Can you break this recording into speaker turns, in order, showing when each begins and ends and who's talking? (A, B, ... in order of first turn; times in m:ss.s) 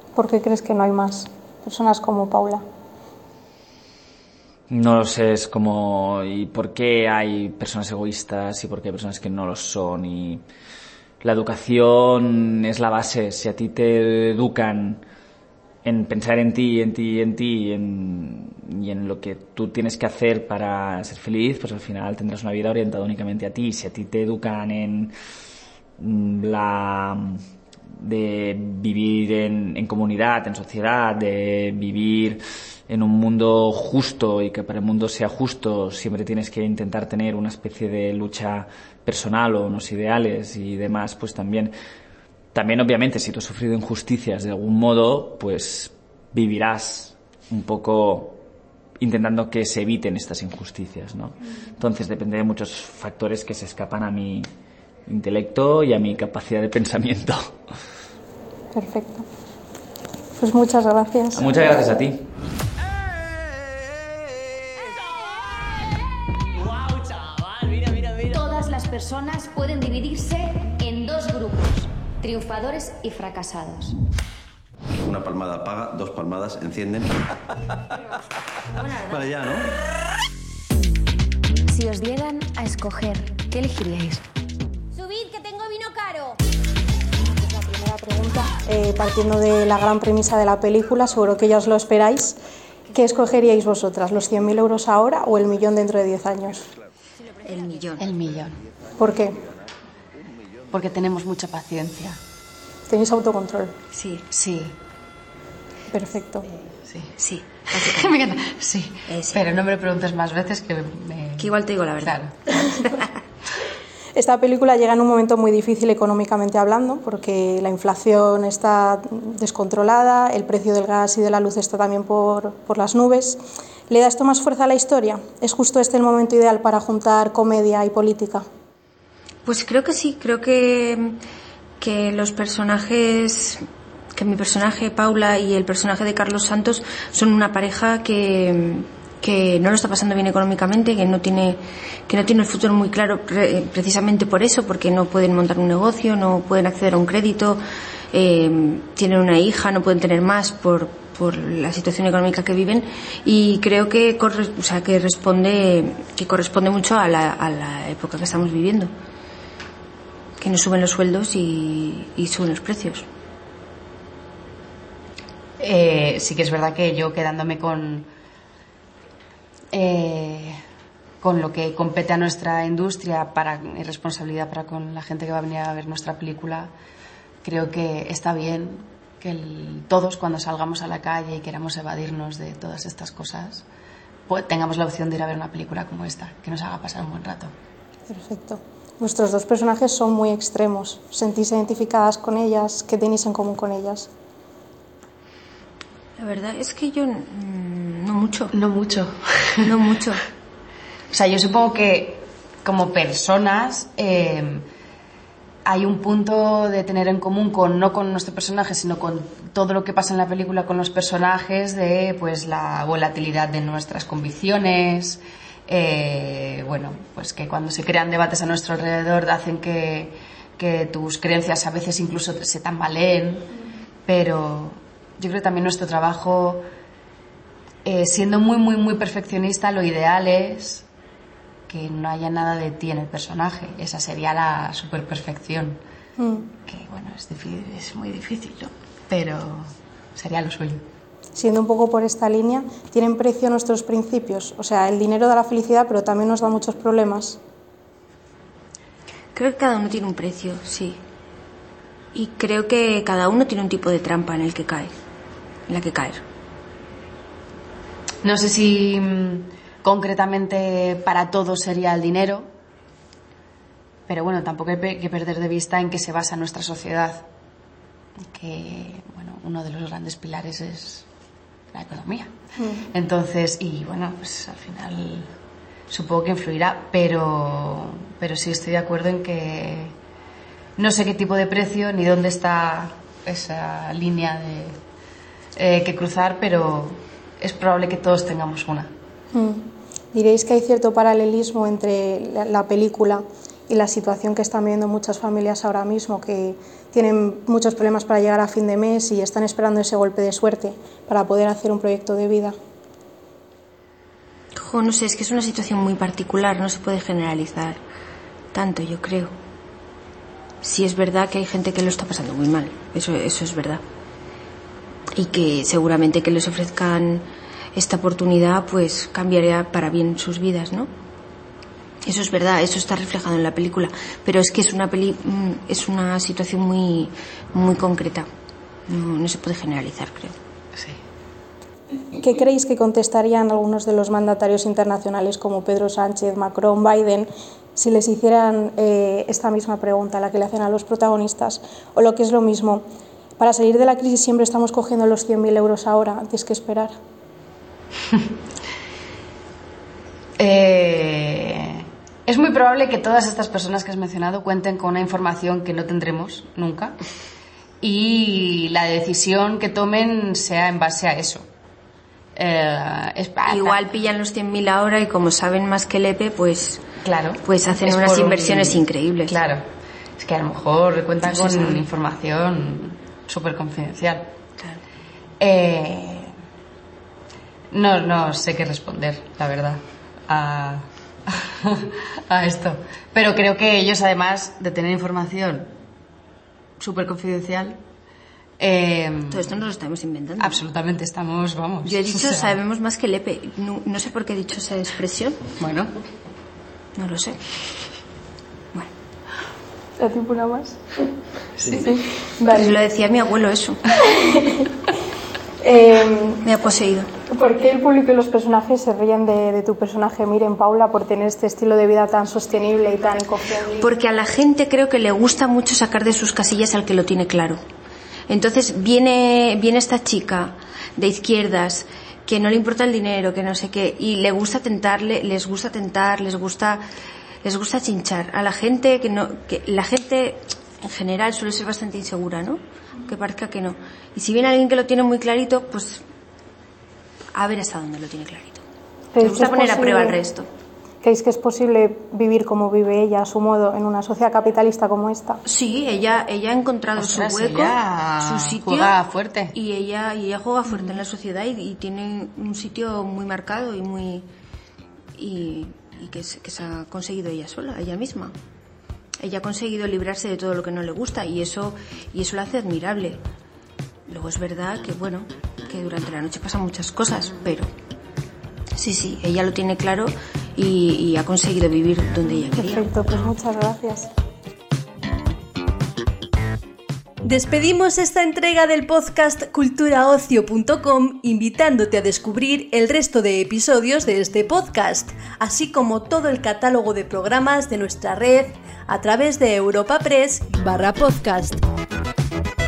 0:00.1-0:02.6 A
0:04.7-0:10.4 B
0:11.2-0:15.0 B
0:15.8-0:25.1 B
0:26.0-0:27.4 B
0:28.0-0:41.7 B
0:42.5-0:48.4 B
0:49.0-0:54.5 B
0:55.1-0:57.5 B
0:58.7-0:59.2 A
1:00.4-1:01.5 A
1:01.4-1:02.3 B
1:08.2-1:14.0 C
1:14.9-1:17.1 D
1:18.8-1:19.2 C
1:18.8-1:19.7 D
1:21.7-1:24.2 C
1:24.9-1:26.4 C
1:27.3-1:32.4 A
1:32.9-1:36.7 A
1:37.4-1:38.0 E
1:38.0-1:38.6 F
1:39.0-1:39.4 A
1:40.7-1:42.2 F
1:42.9-1:43.7 A
1:43.9-1:44.2 E
1:44.3-1:44.7 F
1:45.9-1:46.5 A
1:46.9-1:47.1 F
1:47.2-1:48.1 E
1:47.6-1:52.3 F
1:49.1-1:49.4 E
1:51.4-1:52.9 E
1:54.2-2:08.4 A
2:09.4-2:11.2 E
2:11.8-2:13.6 E
2:14.2-2:27.6 E
2:28.1-2:38.9 E
2:40.4-2:43.0 E
2:45.6-2:48.1 F
2:49.7-2:50.6 F
2:51.2-2:56.7 F
2:57.4-3:03.6 F
3:04.3-3:07.5 F
3:08.1-3:14.1 A
3:16.2-3:18.5 E
3:18.5-3:19.8 F
3:19.7-3:20.2 E
3:21.1-3:24.6 F
3:25.6-3:43.5 F
3:44.1-3:46.6 F
3:47.8-3:50.8 F
3:51.7-3:55.8 F
3:56.2-3:56.5 A
3:56.6-4:00.8 F
4:01.3-4:07.4 A
4:09.4-4:11.0 E
4:12.1-4:14.9 E
4:15.7-4:16.2 E
4:18.2-4:22.5 F
4:24.1-4:27.3 F
4:28.3-4:31.0 F
4:31.7-4:32.3 F
4:32.6-4:32.9 A
4:32.9-4:35.3 F
4:35.9-4:39.9 F
4:40.8-4:44.8 F
4:45.5-4:48.9 F
4:49.3-4:49.6 A
4:50.1-5:02.5 A
5:04.6-5:07.8 E
5:08.5-5:09.3 E
5:10.6-5:13.8 E
5:15.2-5:17.2 E
5:17.8-5:20.9 E
5:22.0-5:28.3 E
5:28.9-5:30.3 E
5:32.1-5:42.8 A
5:43.4-5:46.9 A
5:50.4-5:57.0 F
5:57.8-6:01.5 F
6:02.4-6:03.9 F
6:03.5-6:06.8 E
6:07.0-6:09.6 F
6:07.4-6:09.3 E
6:10.2-6:14.3 F
6:11.3-6:11.8 E
6:15.4-6:16.3 F
6:17.7-6:25.7 F
6:26.8-6:27.8 F
6:28.6-6:29.6 F
6:29.3-6:30.6 E
6:30.4-6:32.6 F
6:31.8-6:35.4 E
6:35.6-6:35.9 F
6:37.0-6:37.4 E
6:40.0-6:40.8 A
6:41.6-6:41.9 F
6:41.7-6:42.8 A
6:42.5-6:43.8 E
6:44.3-6:44.6 A
6:45.6-6:46.4 A
6:46.4-6:47.1 E
6:47.3-6:53.9 A
6:53.8-6:57.6 E
6:58.3-7:06.8 E
7:07.4-7:16.0 E
7:17.4-7:18.6 E
7:19.1-7:20.2 A
7:19.2-7:20.5 E
7:21.0-7:25.4 A
7:25.4-7:28.9 E
7:26.9-7:29.5 F
7:29.5-7:34.2 E
7:30.6-7:31.0 F
7:35.2-7:38.3 E
7:39.2-7:43.2 E
7:44.1-7:47.7 E
7:48.8-7:52.8 E
7:52.5-7:54.1 A
7:57.2-8:11.6 G